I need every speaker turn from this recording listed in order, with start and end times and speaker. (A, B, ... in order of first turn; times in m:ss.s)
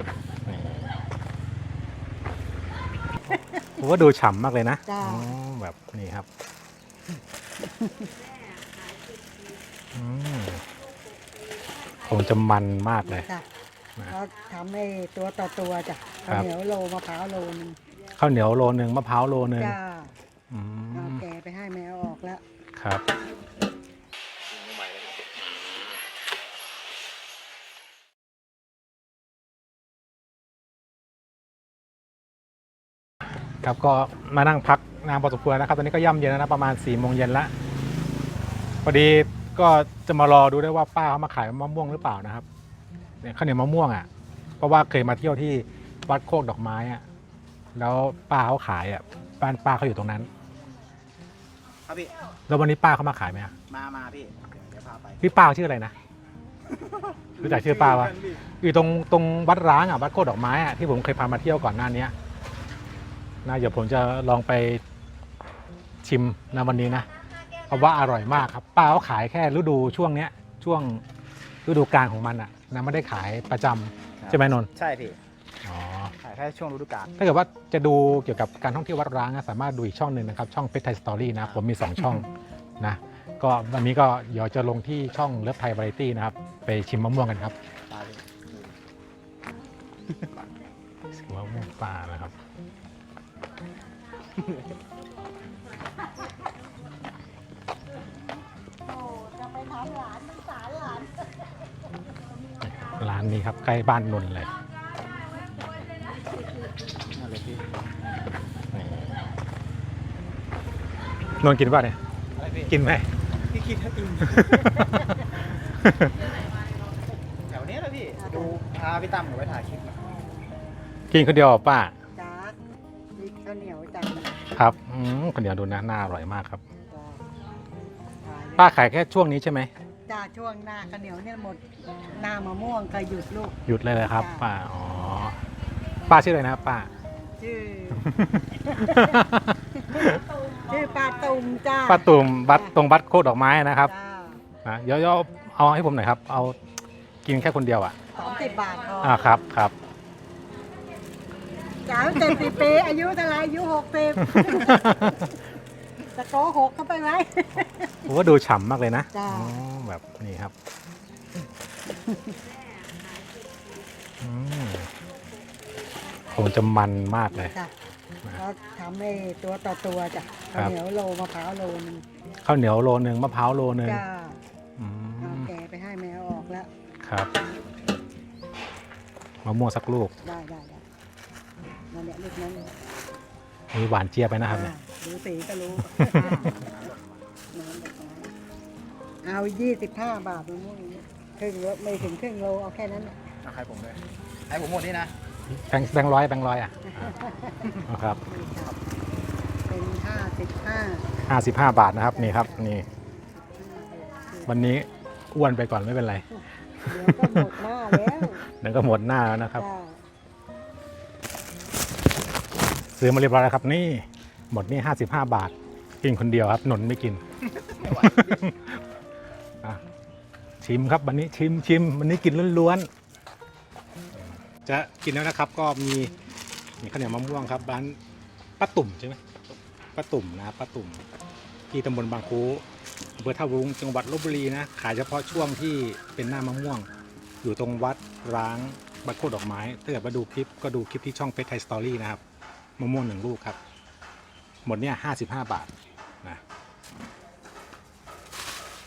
0:00.4-0:00.9 A
0:03.8-0:06.3 A
0:04.9-0:05.3 B
0:07.7-0:08.1 B
0:09.9-0:10.6 A
0:12.0-0:13.3 A
0:13.0-0:13.5 B
0:14.1-0:17.8 B
0:18.2-0:19.8 A
0:19.5-0:20.2 B
0:20.5-0:21.2 A
0:20.9-0:22.4 B
0:22.8-0:23.0 A
0:24.5-0:25.3 C
0:25.5-0:25.9 A
0:33.6-0:37.5 A
0:38.8-0:42.4 A
0:43.2-0:44.1 A
0:44.6-0:47.0 A
0:47.8-0:50.3 A
0:51.8-0:52.1 C
0:52.5-0:53.5 A
0:53.7-0:55.4 C
0:55.2-0:56.0 A
0:56.7-0:58.5 C
0:57.4-1:02.1 A
1:03.4-1:04.8 A
1:06.0-1:07.1 A
1:07.7-1:11.0 A
1:11.6-1:14.7 A
1:14.2-1:15.2 C
1:15.6-1:16.1 A
1:16.2-1:17.2 C
1:17.2-1:27.5 A
1:27.9-1:28.8 C
1:31.1-1:32.3 A
1:34.3-1:34.7 C
1:38.8-1:41.6 B
1:42.6-1:44.5 A
1:47.1-1:47.6 C
1:48.7-1:49.2 A
1:51.4-1:52.0 A
1:52.3-1:52.8 C
1:52.7-1:53.1 A
1:53.4-1:54.6 C
1:54.4-1:55.0 A
1:55.8-1:56.1 A
1:57.5-2:00.1 C
1:58.2-1:58.5 B
2:01.1-2:01.9 A
2:02.1-2:02.6 B
2:03.1-2:04.4 B
2:04.5-2:06.6 A
2:06.9-2:07.2 B
2:08.2-2:08.7 B
2:08.6-2:09.7 A
2:10.1-2:14.5 B
2:13.7-2:15.4 A
2:16.1-2:16.9 A
2:17.4-2:18.1 B
2:18.0-2:20.2 A
2:18.6-2:19.2 B
2:19.9-2:22.8 B
2:21.8-2:23.9 A
2:23.8-2:24.4 B
2:24.6-2:26.6 A
2:27.2-2:28.0 A
2:28.1-2:29.6 B
2:29.0-2:29.7 A
2:31.8-2:35.3 B
2:34.2-2:35.3 A
2:36.1-2:38.1 B
2:38.1-2:40.5 A
2:39.1-2:39.6 B
2:44.2-2:44.9 A
2:46.3-2:47.5 A
2:47.5-2:47.7 B
2:48.3-2:52.0 B
2:52.4-2:54.0 A
2:53.7-2:54.4 B
2:54.8-2:55.5 A
2:55.2-2:56.7 B
2:57.0-2:57.3 A
2:59.4-3:00.1 A
3:00.2-3:00.8 B
3:01.9-3:02.7 B
3:03.7-3:04.8 A
3:04.4-3:06.7 B
3:05.9-3:06.5 A
3:06.3-3:07.1 C
3:07.5-3:08.3 B
3:09.2-3:13.2 B
3:13.4-3:15.1 C
3:15.5-3:17.2 A
3:16.9-3:18.8 B
3:17.8-3:18.2 A
3:19.7-3:21.1 B
3:21.2-3:22.8 A
3:22.0-3:22.7 B
3:23.4-3:24.5 B
3:24.4-3:26.2 A
3:26.8-3:28.4 B
3:26.8-3:27.5 A
3:28.2-3:29.6 A
3:29.6-3:30.0 B
3:33.0-3:37.2 A
3:37.5-3:38.5 C
3:37.8-3:38.7 A
3:40.6-3:42.9 A
3:44.6-3:46.1 A
3:46.8-3:48.0 A
3:48.6-3:49.2 A
3:49.9-3:51.0 A
3:51.7-3:52.6 A
3:53.2-3:56.9 A
3:57.4-4:02.2 A
4:02.8-4:03.6 A
4:04.6-4:05.7 A